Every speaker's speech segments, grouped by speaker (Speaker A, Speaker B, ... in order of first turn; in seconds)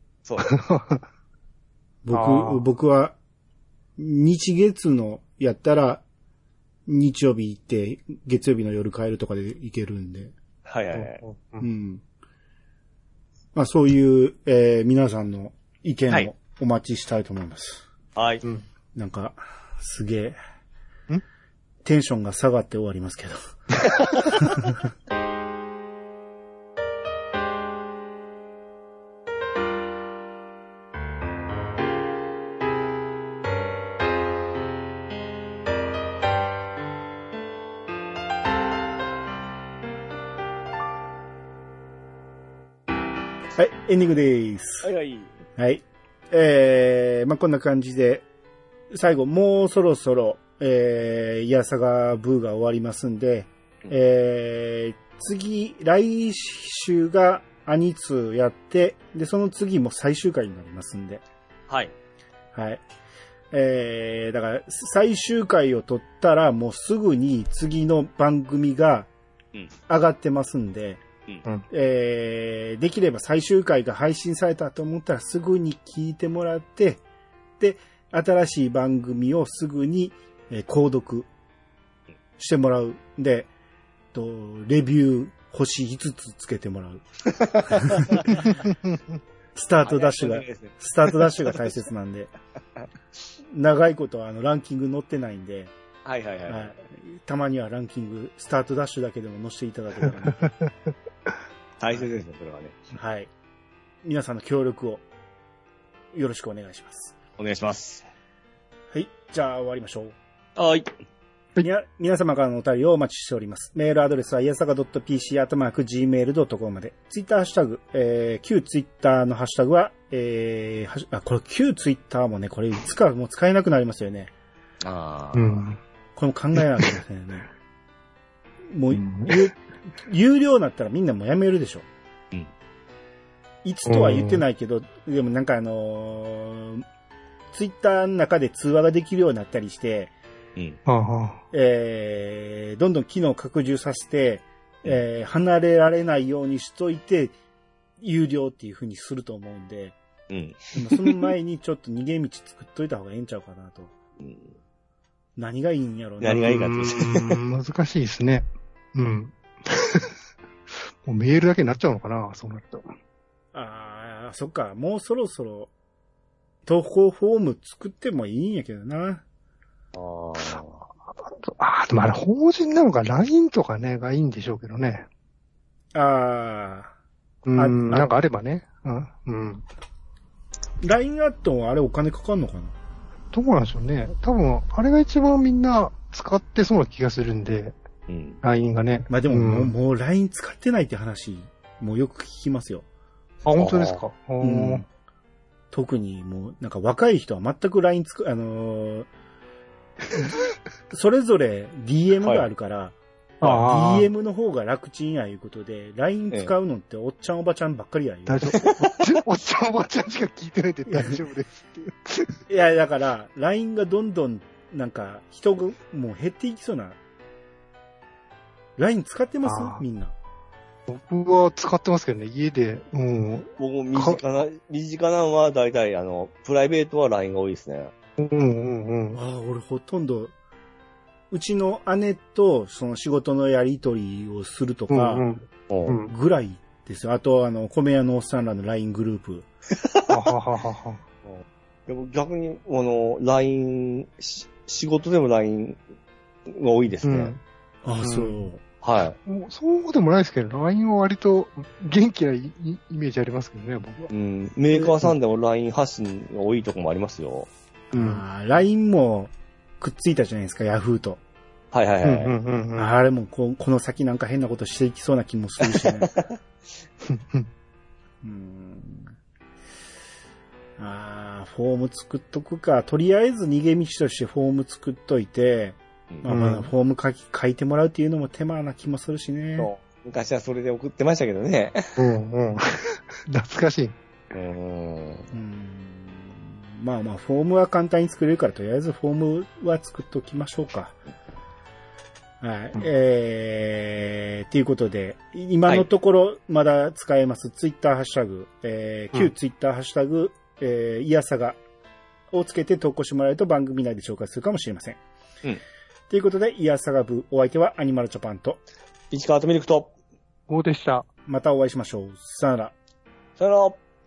Speaker A: 0.2-0.6, 10.7-11.2, 18.2-18.4, 44.8-45.3, 61.7-61.9, 87.3-88.5, 89.8-91.4, 96.0-96.7, 101.8-102.8, 107.4-108.0, 110.6-110.9, 124.8-125.6, 150.3-151.2, 154.2-154.5, 156.2-157.4, 169.9-170.8, 188.1-188.4, 193.6-194.0, 208.6-209.0, 223.6-227.9, 235.7-236.0, 239.8-240.1, 241.2-245.8, 246.5-247.3, 248.8-249.2, 254.1-257.5, 261.7-262.3, 265.6-266.3, 279.6-282.0, 284.3-285.3, 309.1-309.9, 313.4-313.8
Speaker B: 0.5-1.0, 2.1-2.6, 10.9-11.7, 125.3-125.8, 128.9-129.4, 133.9-134.4, 140.9-141.4, 156.5-160.1, 161.1-162.9, 171.4-175.1, 177.5-179.6, 183.3-187.8, 188.4-189.7, 193.4-194.8, 203.4-204.1, 208.3-212.4, 219.4-219.8, 220.9-224.2, 228.2-229.2, 234.9-236.1, 240.1-241.0, 247.0-247.4, 248.0-248.4, 249.3-254.1, 254.8-255.1, 257.9-258.2, 262.0-262.9, 267.1-267.5, 276.3-276.7, 282.0-283.9, 310.5-311.1
Speaker C: 2.0-3.2, 4.0-6.0, 6.9-10.3, 11.6-12.0, 13.6-17.8, 18.9-20.4, 21.9-23.4, 24.2-24.8, 43.6-44.9, 45.6-48.2, 48.9-61.2, 62.5-62.8, 63.5-69.1, 69.9-71.0, 71.7-77.0, 77.6-81.3, 82.4-83.5, 84.1-87.0, 87.7-88.5, 89.5-92.3, 93.5-95.7, 96.5-100.5, 102.9-103.3, 104.0-105.0, 106.1-107.2, 108.9-110.2, 111.6-124.3, 126.2-127.4, 128.7-131.9, 133.6-136.8, 137.5-140.1, 141.5-147.3, 148.0-150.0, 150.8-153.9, 155.4-156.6, 163.5-165.7, 166.7-169.2, 175.9-176.9, 177.6-178.1, 180.8-182.8, 189.1-192.8, 194.4-194.9, 195.7-199.1, 200.9-208.6, 212.5-217.0, 218.8-220.1, 229.2-230.3, 231.3-235.2, 236.1-239.5, 247.8-248.6, 257.9-261.2, 262.8-266.1, 268.2-269.1, 270.8-279.7, 285.3-291.0, 292.4-301.6, 302.3-305.0, 306.1-308.6, 311.3-312.8